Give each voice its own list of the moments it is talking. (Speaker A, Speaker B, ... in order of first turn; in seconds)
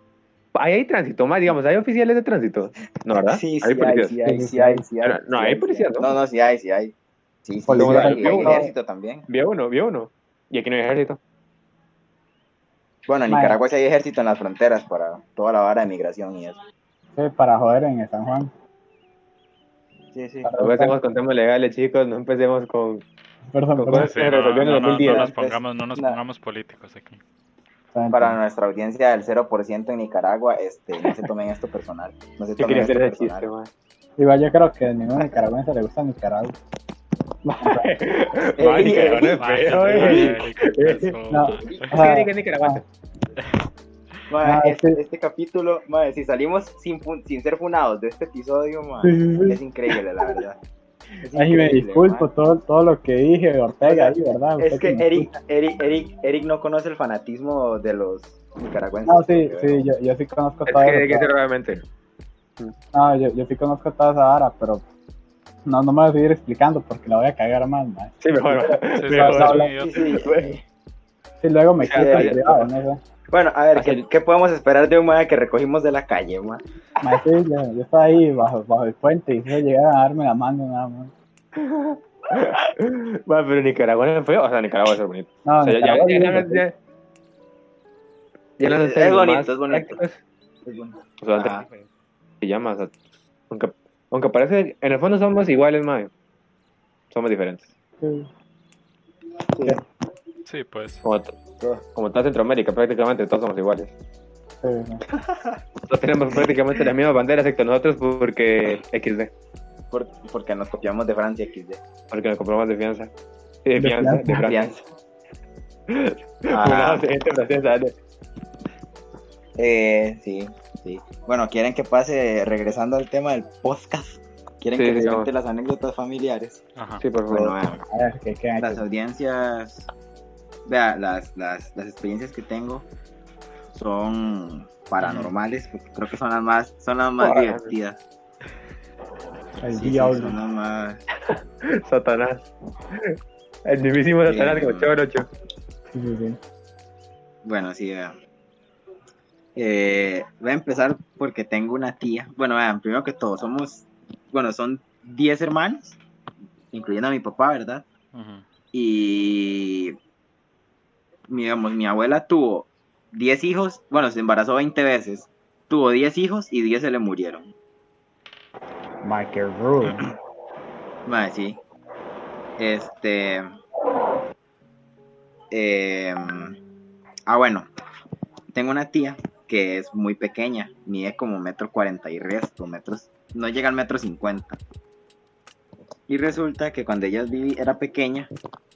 Speaker A: 0.6-4.2, 5.0-6.2, 7.8-8.6, 9.3-11.2, 20.6-23.0, 23.8-25.3, 32.6-33.7, 37.6-41.1, 41.9-42.9, 60.7-61.8, 68.2-70.5, 71.8-72.6, 73.8-74.0, 81.6-86.7, 88.6-90.2, 91.2-91.9, 92.4-93.0, 93.5-96.1, 97.1-97.7, 101.0-101.4, 101.9-103.9, 105.9-109.3, 112.1-113.1, 113.7-114.7, 115.9-118.0, 124.7-125.3, 127.0-127.5, 137.2-137.7, 141.3-143.1, 143.7-145.3
Speaker B: 3.3-6.9, 7.5-9.3, 13.1-16.6, 20.1-20.5, 24.8-26.2, 28.1-33.5, 38.6-39.4, 39.9-40.3, 41.7-42.1, 44.3-50.6, 51.2-52.3, 53.9-59.9, 69.8-70.6, 71.9-72.7, 73.3-76.6, 88.6-90.0, 90.7-91.7, 99.5-99.8, 105.2-105.6, 109.9-111.8, 114.4-114.8, 116.5-117.1, 119.6-126.6, 127.3-127.8, 128.6-129.9, 130.7-132.9, 133.7-138.0, 139.7-141.0, 144.3-144.9, 147.4-148.2, 149.6-156.0, 156.7-157.8, 158.7-160.0, 161.3-167.5, 171.1-171.6, 172.6-173.5, 175.5-176.6, 177.3-177.7, 178.5-184.6, 186.1-188.3
Speaker C: 4.2-4.8, 7.7-8.7, 13.3-13.6, 17.2-18.5, 20.4-20.9, 23.5-24.1, 27.9-28.4, 34.2-36.5, 37.5-37.9, 41.3-42.8, 44.4-45.0, 49.0-49.6, 51.4-55.3, 59.0-61.3, 62.9-64.8, 65.7-69.7, 71.4-73.0, 77.0-81.1, 85.5-86.7, 98.0-98.3, 104.6-105.0, 113.8-114.5, 127.9-128.9, 139.6-140.4, 145.9-146.4, 169.0-170.1
Speaker D: 23.9-27.2, 38.6-41.9, 68.9-70.0, 100.5-101.0, 126.8-127.0, 135.0-135.3, 158.1-158.4